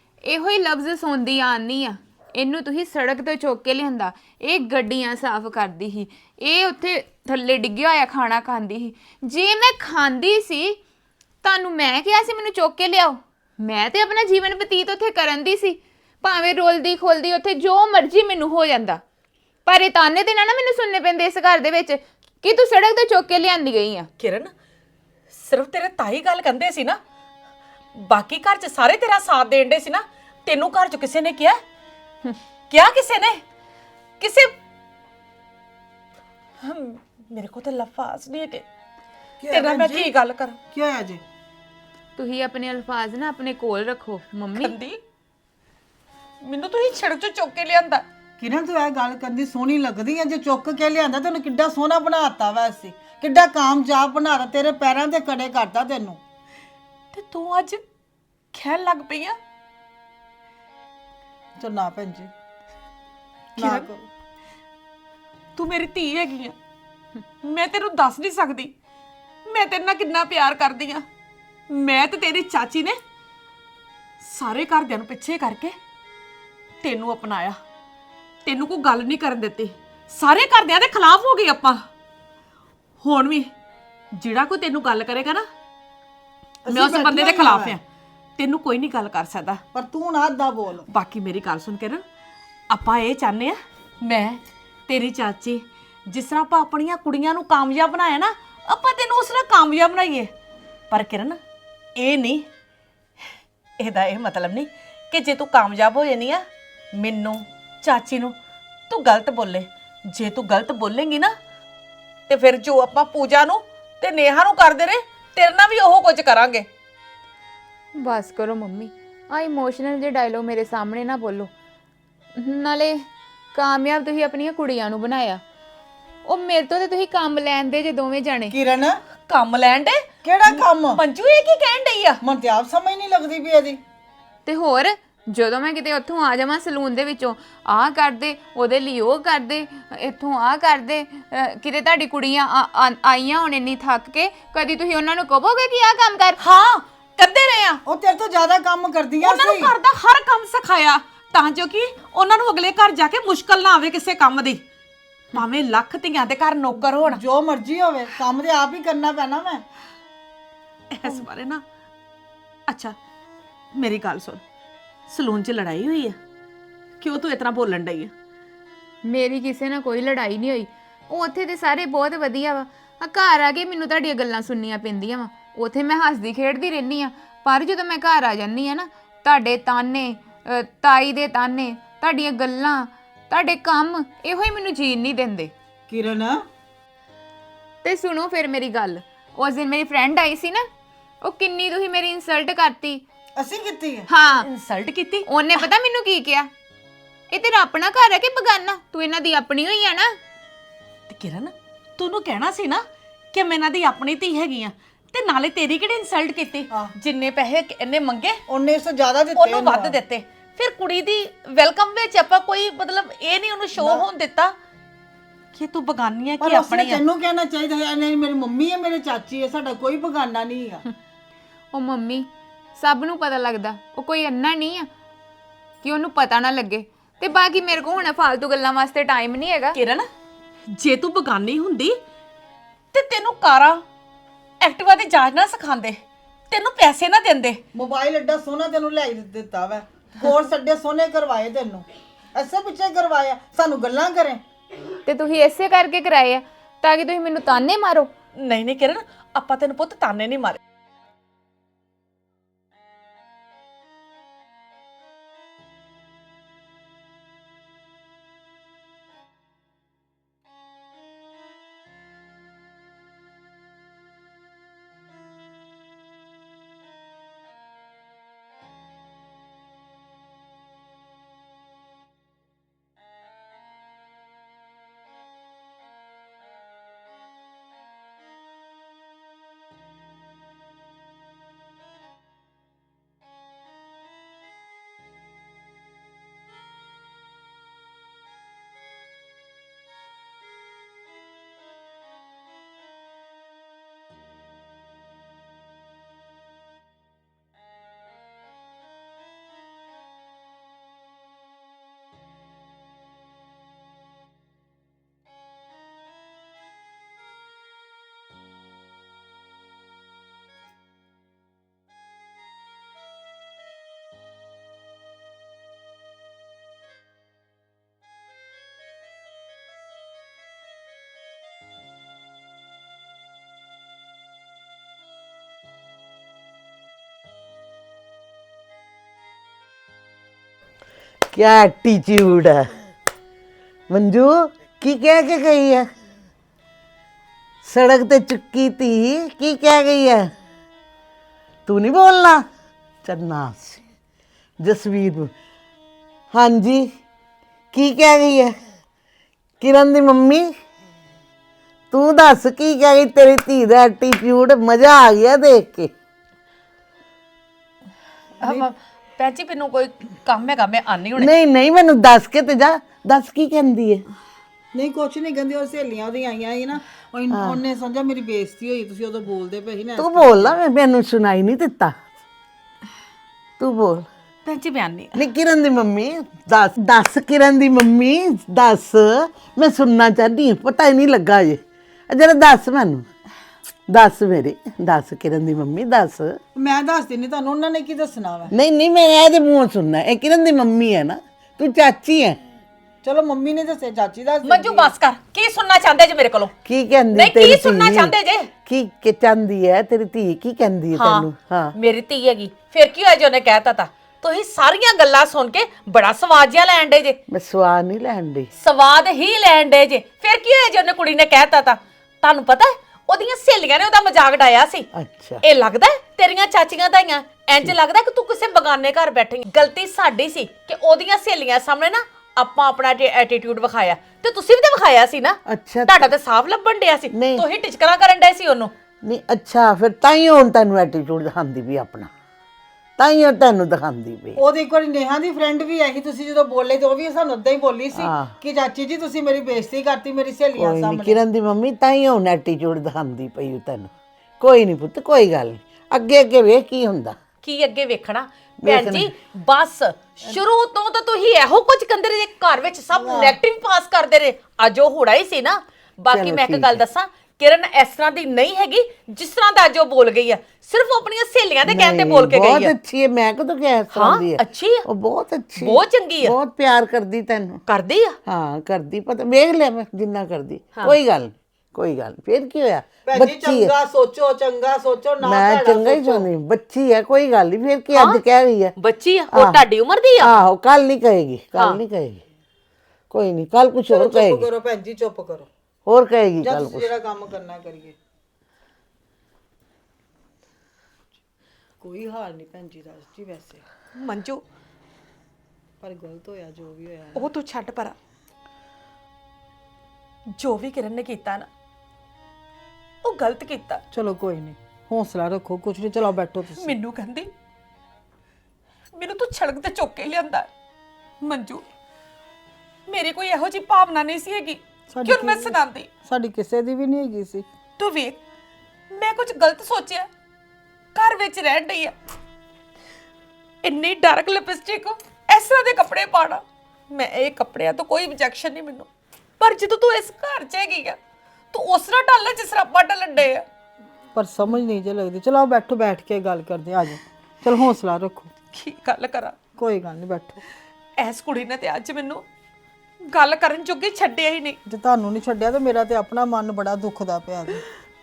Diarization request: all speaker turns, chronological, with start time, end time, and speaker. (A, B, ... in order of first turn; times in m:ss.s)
0:00.2-0:10.8 A
0:11.4-0:19.0 A
0:19.6-0:24.1 A
0:24.2-0:24.5 B
0:25.3-0:27.0 B
0:27.9-0:31.6 B
0:32.7-0:33.4 B
0:34.2-0:34.5 B
0:36.6-0:38.6 B
0:39.4-0:40.1 C
0:39.5-0:40.6 B
0:40.7-0:41.2 C
0:42.2-0:44.8 A
0:44.6-0:45.0 B
0:46.4-0:48.0 B
0:48.4-0:56.2 C
0:57.1-0:57.8 B
0:58.5-0:59.4 B
1:01.6-1:02.3 C
1:03.5-1:03.9 B
1:03.6-1:04.1 C
1:05.6-1:06.6 B
1:07.4-1:08.7 B
1:09.4-1:11.0 B
1:11.7-1:13.0 B
1:14.2-1:15.8 B
1:16.8-1:17.6 B
1:18.4-1:21.8 B
1:23.0-1:23.5 B
1:24.1-1:25.4 B
1:26.6-1:27.8 C
1:26.7-1:27.8 B
1:28.4-1:29.6 B
1:29.7-1:30.8 C
1:30.9-1:32.0 B
1:32.7-1:40.3 B
1:40.9-1:41.4 B
1:42.0-1:42.4 B
1:43.8-1:46.4 B
1:46.9-1:48.4 B
1:48.9-1:51.3 B
1:52.3-1:56.7 B
1:57.9-2:01.5 A
2:02.4-2:05.4 A
2:06.2-2:08.6 A
2:08.5-2:09.0 C
2:09.3-2:12.2 B
2:10.2-2:11.0 C
2:12.2-2:13.8 C
2:14.4-2:26.4 A
2:26.4-2:27.8 B
2:27.8-2:29.7 C
2:29.2-2:34.6 B
2:35.3-2:37.2 B
2:37.0-2:39.6 C
2:40.9-2:41.6 B
2:42.7-2:43.0 B
2:43.7-2:44.4 B
2:45.1-2:46.2 B
2:47.0-2:48.1 B
2:49.0-3:05.5 A
3:05.9-3:06.4 C
3:07.8-3:10.6 A
3:11.2-3:13.0 A
3:13.4-3:14.1 C
3:14.1-3:14.5 A
3:14.4-3:15.3 B
3:15.3-3:16.5 A
3:17.3-3:20.1 A
3:21.1-3:22.8 B
3:23.3-3:28.4 B
3:28.5-3:30.0 C
3:29.3-3:34.5 B
3:33.8-3:34.0 C
3:35.5-3:37.0 B
3:36.4-3:40.8 C
3:41.7-3:44.9 A
3:45.8-3:49.8 A
3:49.7-3:50.1 B
3:50.7-3:52.0 B
3:52.9-3:53.8 B
3:54.6-3:57.6 B
3:57.7-4:04.4 C
4:05.0-4:08.1 A
4:08.4-4:10.6 B
5:31.3-5:32.7 D
5:33.9-5:35.9 D
5:37.6-5:40.3 D
5:41.7-5:42.4 D
5:43.0-5:43.8 D
5:44.6-5:45.3 D
5:46.3-5:46.9 D
5:47.7-5:48.6 D
5:49.6-5:50.5 D
5:51.9-5:55.9 D
5:58.4-6:01.3 B
5:58.4-5:58.7 C
6:01.2-6:04.0 D
6:04.7-6:10.6 C
6:07.3-6:07.6 D
6:10.0-6:12.0 D
6:13.6-6:14.1 D
6:14.4-6:15.2 B
6:15.2-6:23.1 D
6:23.9-6:26.4 D
6:26.5-6:28.5 C
6:28.5-6:32.4 D
6:33.0-6:34.9 C
6:34.4-6:36.6 B
6:36.6-6:38.1 D
6:37.1-6:38.5 B
6:38.6-6:41.7 D
6:40.9-6:47.2 B
6:47.3-6:48.5 D
6:48.6-6:54.9 B
6:54.9-6:55.4 D
6:55.4-7:08.7 B
7:05.5-7:06.1 D
7:07.1-7:07.4 D
7:09.0-7:12.1 D
7:13.0-7:14.4 D
7:14.4-7:21.2 C
7:17.9-7:18.3 D
7:20.5-7:27.2 D
7:27.4-7:42.7 B
7:28.6-7:29.1 D
7:32.9-7:33.4 C
7:36.1-7:36.8 D
7:41.6-7:47.6 D
7:43.9-7:44.8 B
7:45.6-7:46.4 B
7:47.7-7:48.1 B
7:48.3-7:53.7 D
7:53.0-7:56.3 C
7:55.2-7:58.7 D
7:57.9-7:58.2 B
7:58.8-8:00.4 B
7:59.3-7:59.6 D
8:00.2-8:02.2 D
8:01.5-8:01.8 B
8:03.1-8:04.5 D
8:03.9-8:05.5 C
8:05.8-8:06.9 D
8:06.4-8:08.0 C
8:11.8-8:13.6 C
8:14.0-8:14.4 B
8:15.8-8:17.3 C
8:17.1-8:18.0 B
8:20.3-8:21.5 B
8:23.0-8:23.8 B
8:23.9-8:26.7 C
8:26.6-8:27.3 B
8:28.9-8:30.5 B
8:31.2-8:31.6 B
8:32.9-8:35.9 B
8:34.9-8:37.4 C
8:37.8-8:38.2 B
8:38.9-8:40.1 B
8:40.9-8:41.9 B
8:43.6-8:48.9 B
8:49.4-8:51.0 B
8:51.5-8:53.4 B
8:54.1-8:58.3 C
8:58.5-8:59.3 B
8:59.6-9:00.4 C
9:01.0-9:02.2 B
9:03.0-9:04.6 B
9:04.6-9:07.6 C